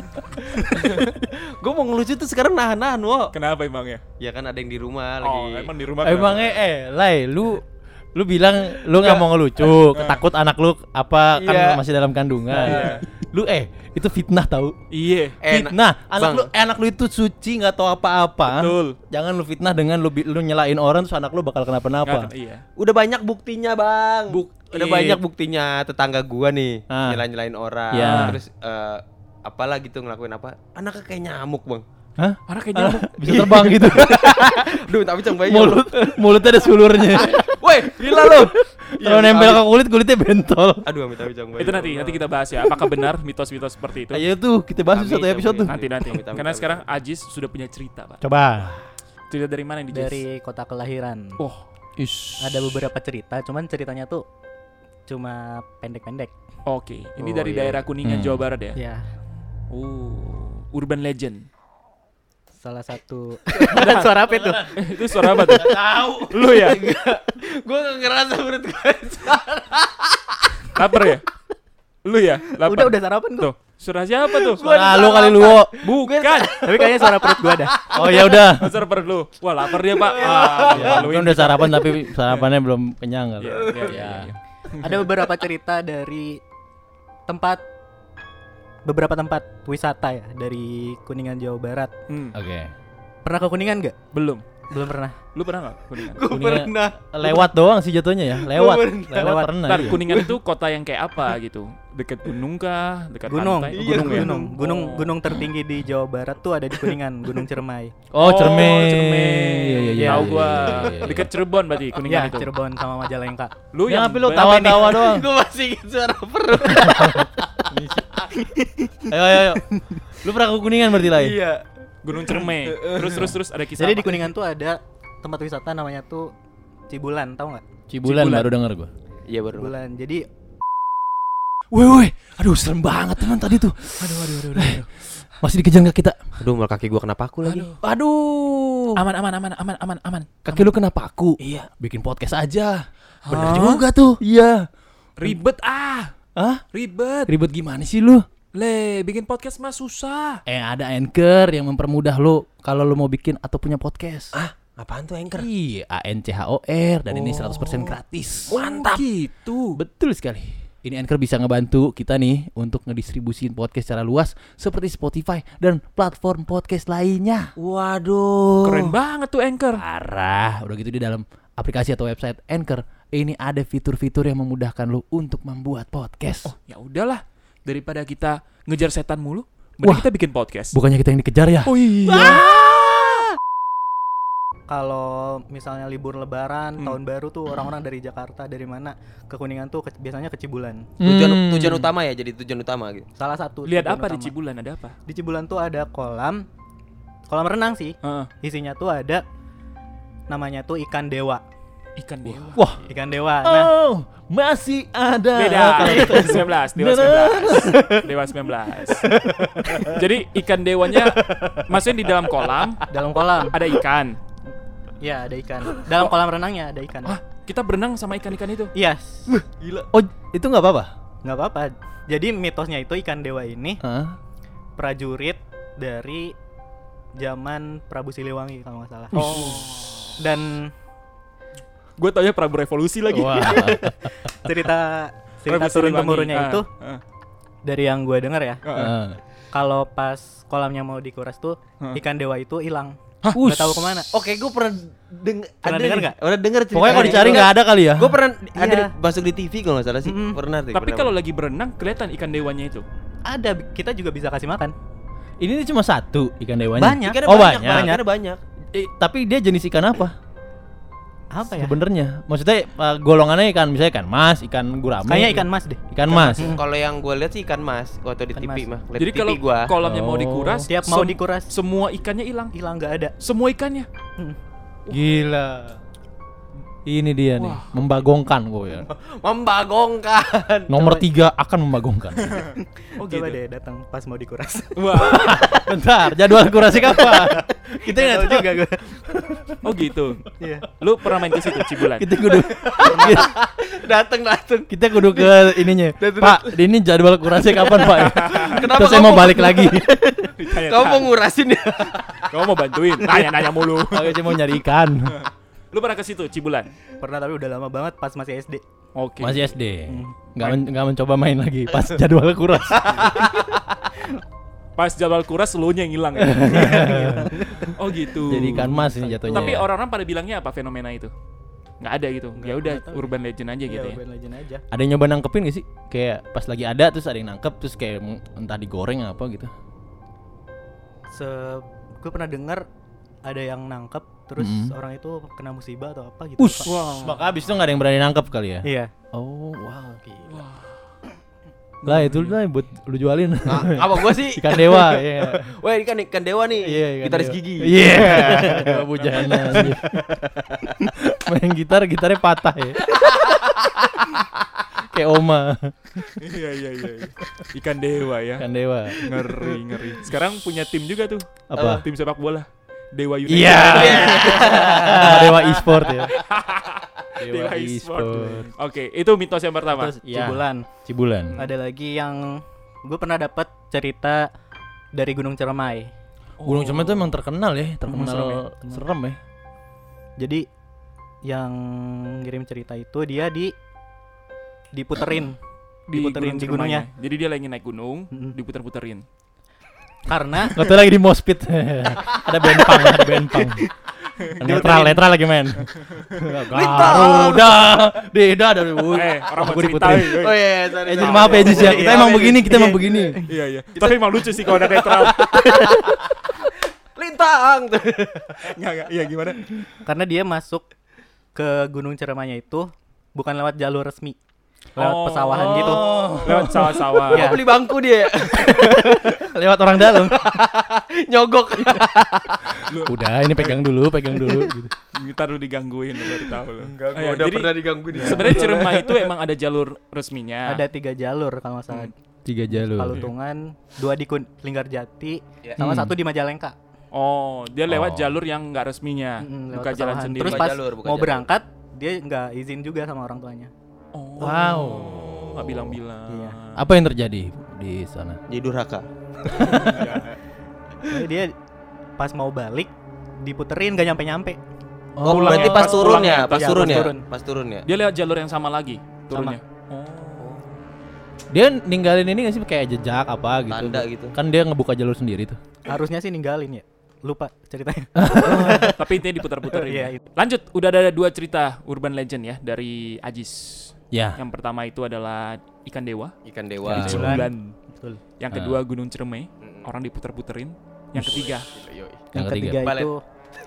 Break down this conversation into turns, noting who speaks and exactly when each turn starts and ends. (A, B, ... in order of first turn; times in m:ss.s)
0:00.6-0:03.3 A
0:00.6-0:01.1 B
0:03.3-0:04.0 B
0:04.2-0:05.7 A
0:05.2-0:06.6 B
0:06.0-0:14.8 C
0:08.8-0:09.2 A
0:09.9-0:10.2 B
0:11.4-0:11.8 A
0:12.5-0:12.9 A
0:12.6-0:13.0 B
0:14.9-0:15.4 B
0:15.4-0:16.5 A
0:15.5-0:22.3 C
0:18.5-0:19.0 B
0:22.1-0:22.6 B
0:22.8-0:31.8 A
0:24.3-0:25.2 B
0:26.9-0:27.2 C
0:27.9-0:28.4 C
0:27.9-0:28.4 B
0:32.2-0:34.6 C
0:32.5-0:33.8 B
0:33.3-0:39.7 A
0:35.4-0:40.9 C
0:40.8-0:42.3 A
0:41.6-0:44.2 B
0:42.7-0:43.0 C
0:44.1-0:45.8 C
0:44.9-0:46.8 A
0:45.6-0:48.2 B
0:48.2-0:48.8 C
0:49.3-0:50.2 B
0:49.9-0:51.4 D
0:51.4-0:51.6 B
0:52.0-0:52.8 C
0:52.4-0:54.2 D
0:55.1-0:56.3 D
0:56.7-0:58.8 B
0:57.2-0:57.8 A
0:58.0-0:58.5 C
0:58.8-0:59.0 D
0:59.7-1:01.5 B
1:02.6-1:04.8 D
1:03.6-1:04.2 B
1:04.3-1:04.7 C
1:04.8-1:05.8 B
1:05.4-1:06.4 C
1:05.5-1:10.6 A
1:06.3-1:06.8 B
1:10.7-1:11.3 B
1:12.0-1:14.7 B
1:12.6-1:13.5 D
1:14.3-1:18.5 A
1:14.6-1:15.7 C
1:15.8-1:16.6 B
1:16.6-1:17.8 D
1:17.9-1:18.8 C
1:18.6-1:22.4 B
1:19.7-1:21.1 A
1:20.6-1:24.3 C
1:23.4-1:25.1 B
1:23.5-1:24.1 A
1:24.8-1:26.4 D
1:27.3-1:27.6 D
1:28.8-1:31.9 D
1:32.1-1:32.4 B
1:32.3-1:32.7 C
1:33.2-1:34.0 D
1:34.1-1:34.4 B
1:34.7-1:35.2 D
1:35.3-1:36.2 B
1:36.0-1:37.5 A
1:36.3-1:40.0 C
1:38.3-1:39.4 A
1:39.2-1:39.7 D
1:39.6-1:45.2 B
1:39.9-1:40.3 A
1:43.3-1:47.9 D
1:43.7-1:44.5 A
1:48.1-1:51.3 C
1:48.2-1:52.5 B
1:50.0-1:50.4 D
1:52.0-1:53.5 D
1:53.7-1:55.0 B
1:53.8-1:55.3 C
1:54.6-1:58.3 A
1:56.7-1:58.0 C
1:58.4-2:00.0 D
1:59.1-1:59.6 C
2:00.2-2:01.4 C
2:01.0-2:01.6 A
2:02.0-2:04.3 B
2:02.2-2:03.3 A
2:03.1-2:03.4 C
2:03.8-2:06.3 D
2:06.9-2:07.6 D
2:07.9-2:08.9 C
2:08.0-2:08.5 B
2:09.3-2:09.7 A
2:09.5-2:10.2 D
2:11.7-2:16.4 C
2:14.0-2:14.9 B
2:16.4-2:17.7 A
2:17.4-2:17.8 B
2:17.8-2:19.0 C
2:19.0-2:20.7 B
2:20.4-2:24.7 C
2:21.4-2:21.7 A
2:23.2-2:23.8 B
2:25.2-2:26.1 B
2:26.4-2:26.6 C
2:26.7-2:27.3 B
2:27.3-2:28.3 C
2:28.5-2:30.4 B
2:30.5-2:34.4 C
2:34.3-2:35.5 A
2:35.3-2:38.6 C
2:37.1-2:38.0 B
2:38.5-2:39.0 A
2:38.5-2:39.8 B
2:39.8-2:47.5 C
2:47.6-2:49.0 A
2:48.6-2:49.8 B
2:49.8-2:56.5 C
2:56.4-3:00.8 B
2:59.8-3:00.1 C
3:00.7-3:03.2 C
3:01.7-3:02.5 B
3:04.7-3:10.9 D
3:11.0-3:11.9 C
3:11.0-3:13.1 A
3:13.2-3:14.4 D
3:13.6-3:15.0 B
3:15.1-3:16.4 D
3:17.3-3:19.2 D
3:18.0-3:18.3 B
3:20.3-3:21.4 D
3:22.0-3:22.6 B
3:22.5-3:22.8 C
3:22.9-3:23.7 D
3:23.4-3:27.8 C
3:25.3-3:29.0 B
3:25.8-3:26.4 D
3:29.2-3:30.0 D
3:29.8-3:32.8 B
3:32.9-3:33.6 D
3:33.4-3:34.2 B
3:35.0-3:37.2 D
3:37.0-3:38.7 B
3:38.8-3:39.3 D
3:39.9-3:40.9 C
3:41.2-3:43.8 D
3:43.8-3:44.2 C
3:44.8-3:46.3 D
3:47.2-3:49.6 D
3:49.1-3:49.6 C
3:49.2-3:50.2 B
3:50.2-3:50.7 D
3:52.0-3:53.7 B
3:53.1-3:54.1 C
3:53.4-3:56.7 D
3:55.5-3:57.0 B
3:57.6-3:58.6 D
3:58.6-3:58.9 B
3:58.7-3:59.2 C
3:59.5-4:04.1 D
4:03.4-4:03.9 C
4:04.1-4:11.1 A
4:05.6-4:06.2 D
4:06.7-4:08.2 C
4:06.8-4:07.5 D
4:08.6-4:08.9 D
4:10.0-4:10.4 D
4:10.7-4:12.8 B
4:13.3-4:14.7 D
4:15.4-4:17.9 C
4:16.7-4:18.0 D
4:17.1-4:18.4 A
4:18.7-4:20.2 C
4:21.3-4:21.8 D
4:21.5-4:26.6 C
4:25.0-4:25.8 D
4:26.2-4:29.7 A
4:28.4-4:28.7 D
4:29.0-4:32.5 B
4:29.8-4:30.7 C
4:30.7-4:31.5 D
4:32.5-4:33.1 D
4:33.2-4:33.9 B
4:34.9-4:35.8 C
4:36.9-4:38.9 C
4:37.4-4:37.7 B
4:38.7-4:40.7 A
4:40.7-4:42.5 C
4:40.7-4:41.1 D
4:43.0-4:43.4 B
4:43.0-4:45.4 D
4:44.8-4:45.4 B
4:44.9-4:49.6 C
4:46.6-4:49.0 D
4:49.6-4:50.2 B
4:50.4-4:50.7 D
4:50.8-4:52.1 B
4:52.0-4:53.3 C
4:52.4-4:56.6 A
4:52.8-4:53.3 D
4:54.7-5:00.1 C
4:57.4-5:02.3 A
4:57.9-4:58.7 B
5:00.3-5:01.2 B
5:02.3-5:04.3 B
5:03.9-5:05.1 C
5:05.1-5:06.7 B
5:07.0-5:08.6 D
5:09.0-5:09.5 B
5:09.2-5:13.2 C
5:09.9-5:10.2 D
5:13.0-5:13.5 A
5:14.8-5:17.0 B
5:16.3-5:17.4 C
5:16.5-5:19.6 D
5:17.7-5:21.1 B
5:18.3-5:19.7 C
5:21.8-5:24.0 B
5:22.4-5:23.1 D
5:23.6-5:24.6 D
5:24.7-5:29.5 C
5:31.1-5:32.6 D
5:33.2-5:36.8 D
5:34.4-5:34.7 C
5:36.4-5:40.0 C
5:36.7-5:37.2 B
5:38.6-5:38.9 D
5:40.1-5:40.4 A
5:40.3-5:40.8 B
5:41.8-5:42.4 B
5:41.8-5:45.5 C
5:43.5-5:47.7 A
5:46.6-5:50.1 C
5:47.9-5:48.8 D
5:48.9-5:49.5 B
5:50.8-5:53.7 C
5:53.0-5:53.4 A
5:54.8-5:55.7 C
5:56.2-5:58.4 B
5:58.4-5:59.3 C
5:59.0-6:01.3 B
6:01.5-6:01.8 C
6:01.6-6:01.9 A
6:01.8-6:09.9 B
6:03.3-6:06.1 C
6:03.6-6:05.9 A
6:07.2-6:08.5 C
6:09.7-6:10.7 D
6:10.0-6:11.4 C
6:11.4-6:14.3 D
6:14.9-6:15.9 D
6:16.4-6:17.2 B
6:16.4-6:19.2 C
6:17.9-6:18.8 D
6:20.2-6:20.5 D
6:21.2-6:23.5 D
6:24.7-6:25.4 D
6:25.9-6:29.0 B
6:25.9-6:26.9 D
6:30.1-6:30.6 D
6:30.4-6:33.7 C
6:32.6-6:33.4 D
6:34.4-6:35.0 D
6:34.4-6:40.2 C
6:36.5-6:37.8 A
6:38.9-6:40.4 B
6:40.0-6:42.4 A
6:40.9-6:43.2 C
6:41.0-6:42.0 B
6:41.3-6:43.3 D
6:43.3-6:45.4 B
6:44.5-6:48.6 A
6:45.1-6:46.0 D
6:48.4-6:49.6 B
6:49.8-6:50.6 D
6:51.4-6:54.2 D
6:54.8-6:57.4 B
6:54.8-6:55.8 D
6:55.3-6:56.8 C
6:57.0-6:59.1 A
6:57.1-6:57.4 D
6:58.3-6:59.0 D
6:59.0-7:00.2 C
6:59.8-7:02.6 A
7:02.6-7:04.7 C
7:02.7-7:03.0 B
7:04.9-7:10.6 B
7:06.6-7:09.0 A
7:08.0-7:08.6 C
7:10.5-7:11.9 D
7:12.2-7:13.1 C
7:12.5-7:16.6 D
7:15.6-7:16.0 C
7:16.9-7:20.5 B
7:17.7-7:18.2 C
7:19.2-7:23.5 D
7:20.2-7:21.3 A
7:23.9-7:26.5 B
7:24.2-7:25.8 C
7:26.1-7:26.4 D
7:26.6-7:28.2 C
7:28.3-7:28.9 A
7:29.4-7:30.2 B
7:29.4-7:29.8 A
7:29.4-7:29.8 D
7:30.9-7:31.3 D
7:32.0-7:32.7 D
7:33.2-7:34.4 D
7:35.0-7:35.8 C
7:35.0-7:37.7 A
7:35.1-7:37.0 D
7:35.3-7:36.9 B
7:37.7-7:40.6 B
7:39.1-7:39.4 D
7:40.2-7:40.4 A
7:41.3-7:45.4 C
7:43.5-7:44.1 A
7:45.7-7:48.8 D
7:48.0-7:48.7 C
7:48.4-7:56.2 B
7:49.5-7:50.0 D
7:53.9-7:54.2 C
7:56.2-7:57.2 A
7:56.6-7:57.3 C
7:56.7-7:57.5 B
7:56.8-7:58.0 D
7:58.2-8:01.5 B
7:58.3-7:58.6 C
7:59.4-7:59.7 A
8:01.0-8:02.0 A
8:02.1-8:02.7 C
8:02.1-8:03.0 D
8:02.6-8:02.9 A